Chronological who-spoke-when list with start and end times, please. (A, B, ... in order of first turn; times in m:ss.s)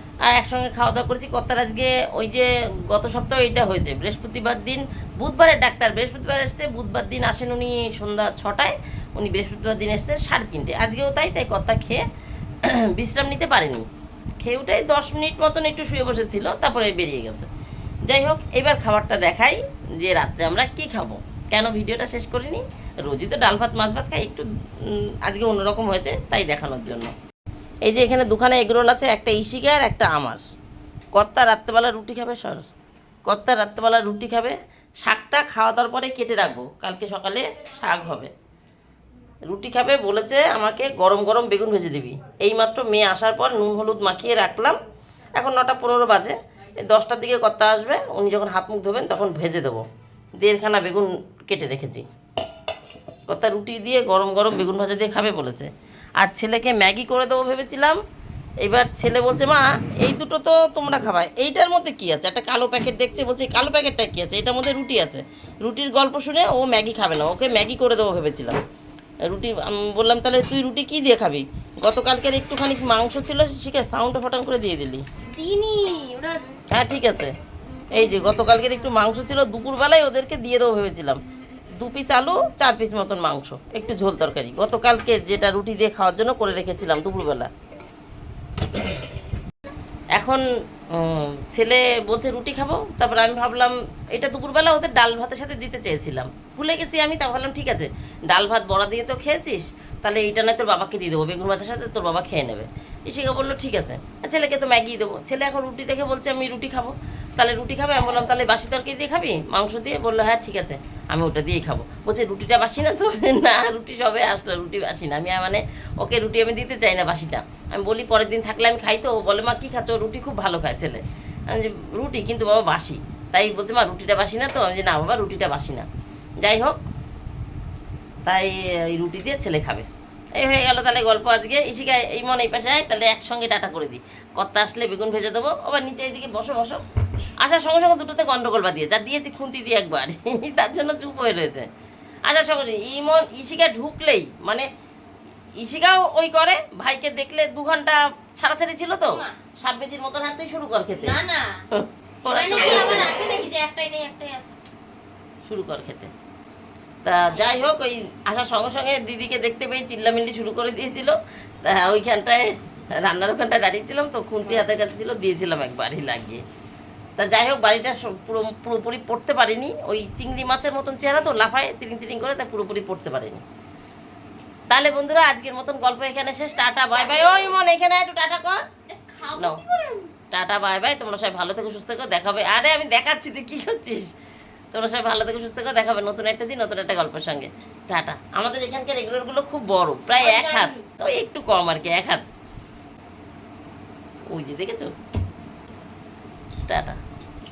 0:00.2-0:12.0 A
0:12.6-0:13.8 A
0:14.4-0:17.5 A
0:18.0-0:27.1 A
0:27.8-0:30.4 A
0:31.1-0:32.6 A
0:33.3-0:38.3 A
0:39.5-0:44.8 A
0:45.4-0:49.8 A
0:50.4-0:52.1 A
0:53.3-0:55.7 A
0:56.2-0:58.0 A
0:58.6-1:08.6 A
1:09.2-1:15.0 A
1:15.3-1:16.6 B
1:16.7-1:17.3 A
1:17.9-1:21.2 A
1:21.8-1:27.5 A
1:30.1-2:05.9 A
2:06.4-2:06.8 A
2:08.2-2:16.8 A
2:17.4-2:21.7 A
2:22.3-2:24.7 A
2:25.6-2:31.2 A
2:31.0-2:31.6 B
2:31.7-2:33.1 A
2:32.2-2:34.6 B
2:35.4-2:36.1 A
2:37.0-2:46.4 A
2:47.2-2:53.4 A
2:54.7-2:58.6 A
2:58.9-3:00.1 B
2:59.3-2:59.6 A
3:00.3-3:04.1 A
3:04.7-3:12.2 A
3:10.2-3:10.8 B
3:14.3-3:14.9 A
3:16.7-3:17.0 A